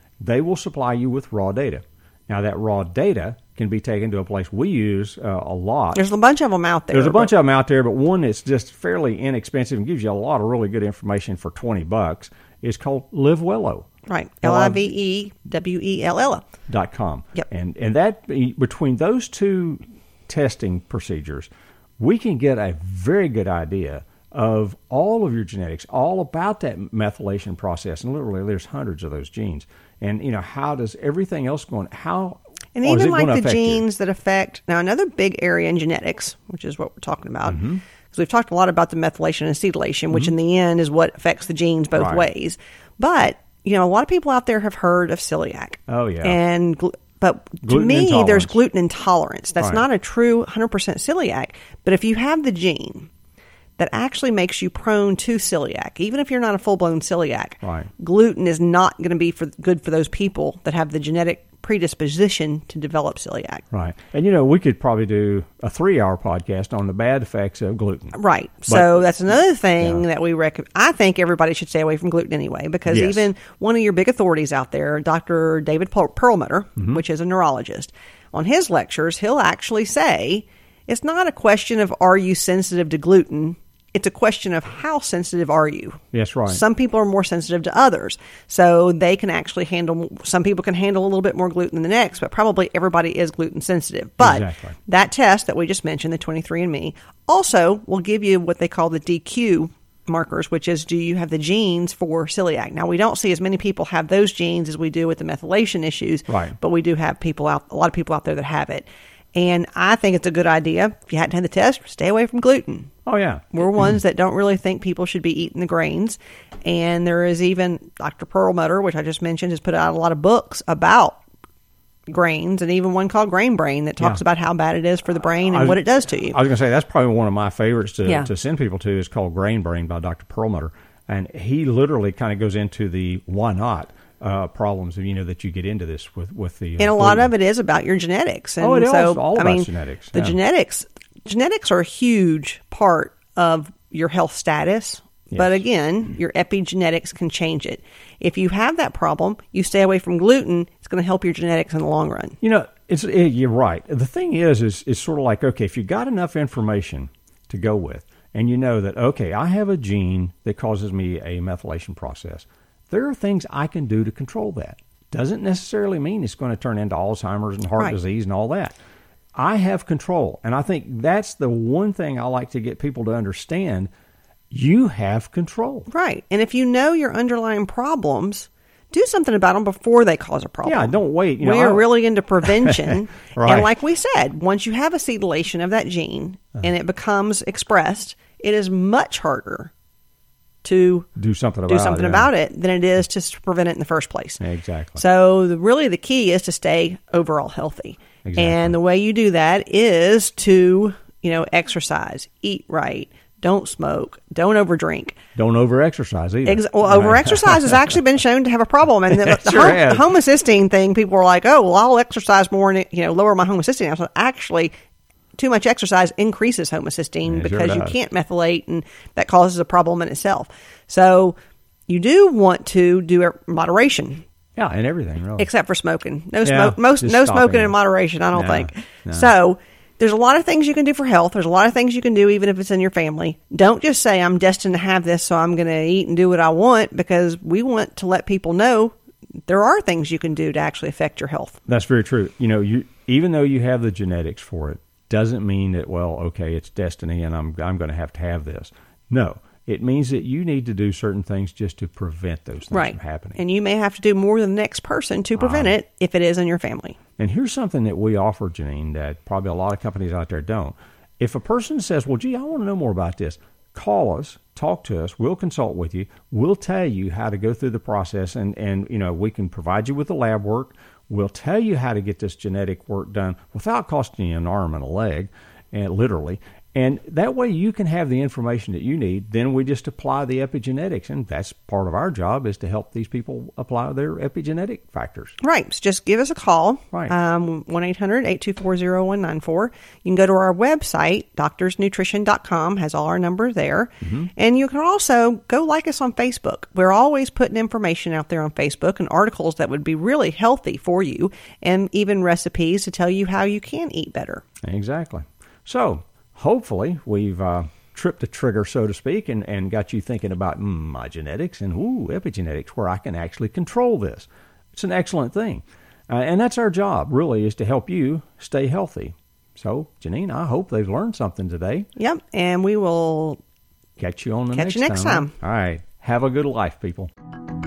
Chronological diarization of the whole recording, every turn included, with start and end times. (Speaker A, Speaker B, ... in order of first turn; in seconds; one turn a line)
Speaker A: 0.2-6.0
Speaker B: 6.0-7.3
Speaker A: 6.9-13.9
Speaker B: 14.1-16.4
Speaker A: 14.4-14.9
Speaker A: 16.7-33.8
Speaker B: 32.8-53.1
Speaker A: 37.5-37.8
Speaker A: 42.0-42.3
Speaker A: 45.9-46.4
Speaker A: 47.6-48.6
Speaker B: 53.8-63.6
Speaker A: 57.6-57.9
Speaker A: 63.7-68.2
Speaker B: 68.1-112.9
Speaker A: 68.7-69.0
Speaker A: 72.9-73.3
Speaker A: 76.8-77.0
Speaker A: 86.1-86.6
Speaker A: 94.2-94.8
Speaker A: 106.3-106.6
Speaker A: 113.1-113.5
Speaker B: 113.5-121.2
Speaker B: 122.1-126.4
Speaker A: 125.5-137.3
Speaker B: 136.8-152.4
Speaker A: 138.6-140.4
Speaker A: 145.3-145.6
Speaker A: 152.4-168.8
Speaker A: 169.3-173.9
Speaker A: 174.5-175.9
Speaker B: 175.9-189.7
Speaker A: 180.6-181.9
Speaker A: 182.4-183.7
Speaker B: 190.6-191.1
Speaker A: 191.2-192.3
Speaker B: 191.7-194.4
Speaker A: 194.4-195.0
Speaker B: 195.0-205.2
Speaker A: 198.2-198.8
Speaker A: 205.3-207.9
Speaker B: 206.4-214.8
Speaker A: 209.1-210.1
Speaker B: 215.4-221.4
Speaker A: 217.3-217.9
Speaker B: 221.9-224.2
Speaker A: 224.6-225.5
Speaker B: 225.4-238.9
Speaker A: 226.4-227.8
Speaker A: 228.3-229.3
Speaker B: 239.5-241.6
Speaker A: 241.7-253.4
Speaker B: 252.7-257.0
Speaker A: 255.4-255.7
Speaker A: 257.2-285.4
Speaker B: 285.4-304.4
Speaker A: 294.0-294.3
Speaker A: 304.6-321.9
Speaker B: 322.0-323.4
Speaker A: 324.0-327.1
Speaker B: 324.5-325.3